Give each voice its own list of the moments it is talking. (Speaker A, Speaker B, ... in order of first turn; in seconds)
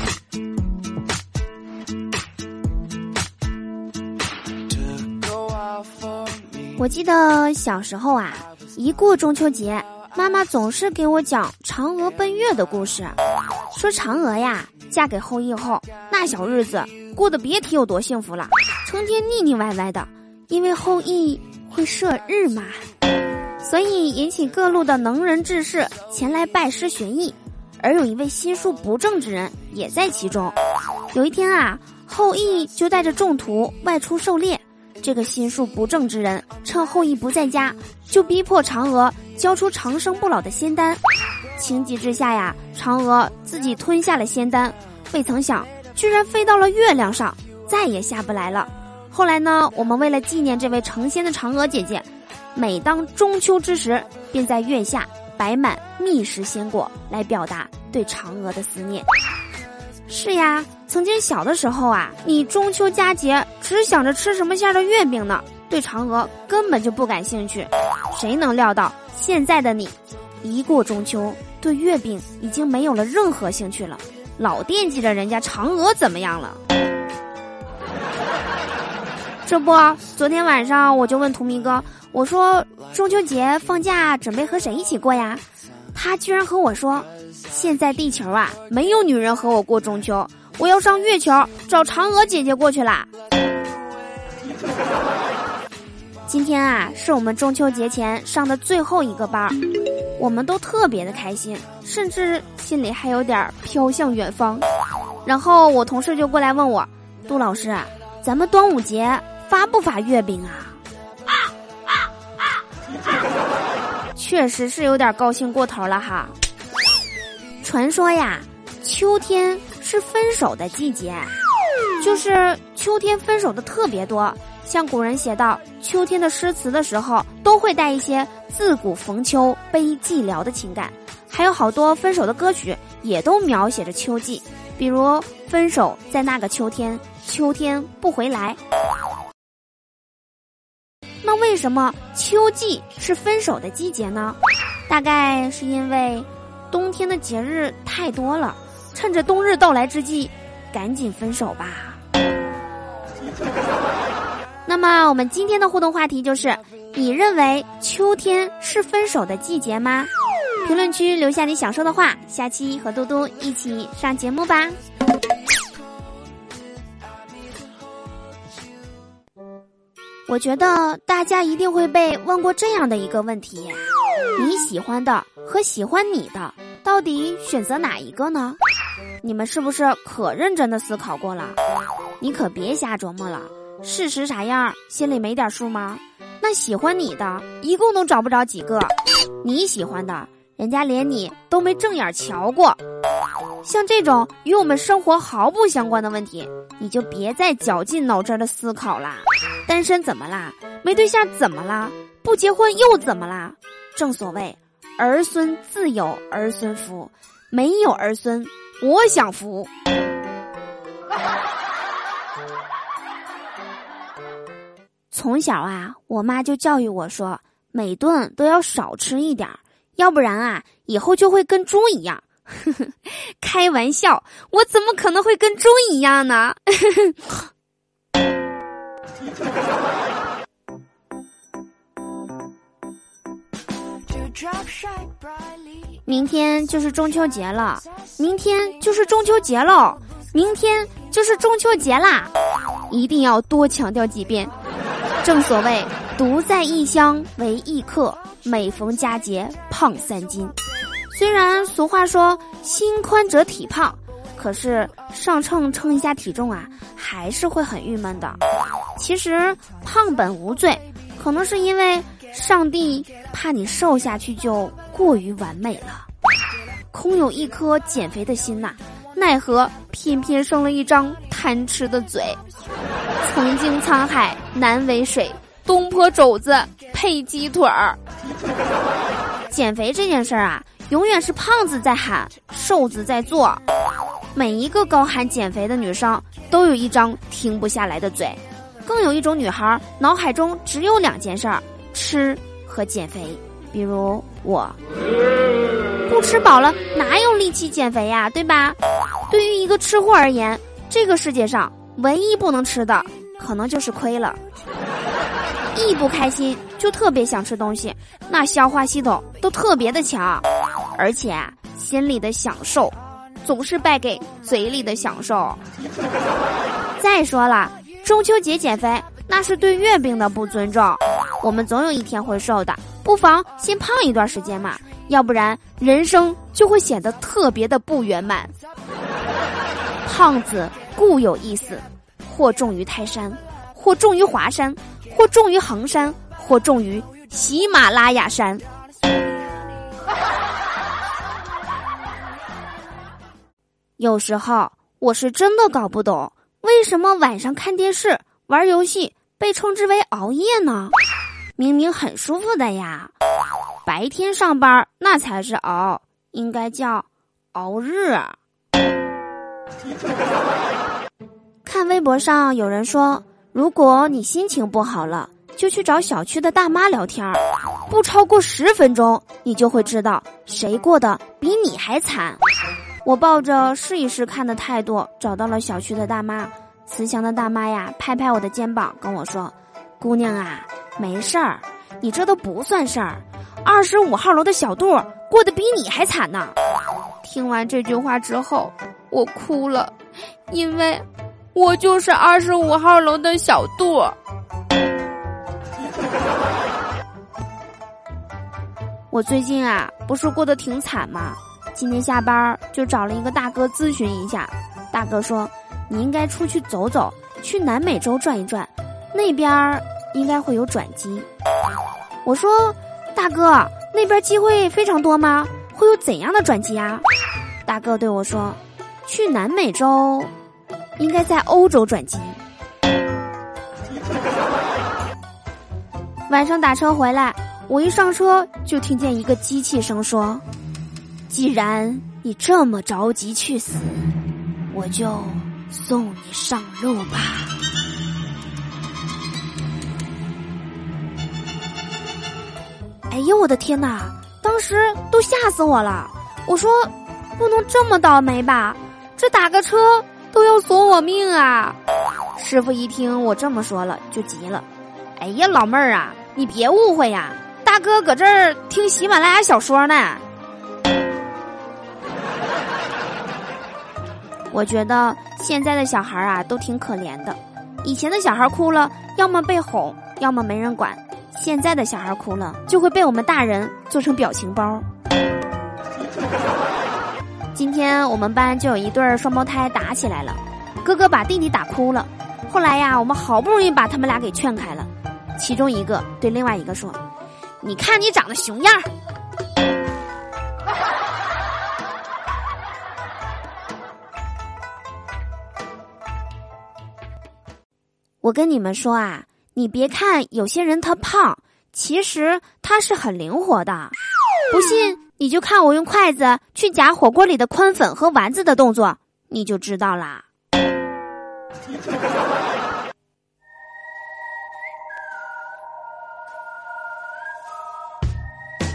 Speaker A: 6.8-13.2, 13.7-22.9, 23.6-30.6, 31.1-41.0, 41.6-59.1, 60.1-76.6, 79.5-93.1, 96.3-99.6, 100.2-104.7, 105.2-110.8, 114.2-116.3, 117.6-121.3, 122.0-138.6, 141.2-152.0, 154.7-160.1, 160.6-164.8, 170.3-173.8, 174.4-178.6, 179.2-181.6, 182.2-192.8, 193.6-209.7, 215.1-227.5, 236.1-242.3, 242.9-244.5, 245.2-250.5, 251.1-258.4, 259.0-266.1, 266.9-272.4, 273.2-278.0, 279.5-283.6, 284.3-294.8, 296.1-298.8, 299.3-304.4, 305.7-315.6, 317.0-328.5, 330.1-338.6, 344.0-350.9, 351.6-353.1, 353.9-358.4, 361.6-372.4, 373.0-386.6, 387.2-389.9, 390.5-394.2, 399.1-411.3, 412.2-417.0, 417.7-420.3, 421.0-422.4, 426.3-430.4, 431.3-434.1, 434.7-437.5, 443.1-451.8, 452.4-454.7, 455.2-460.2, 464.5-474.9, 477.5-487.0, 487.6-488.9, 498.2-504.0, 504.5-510.2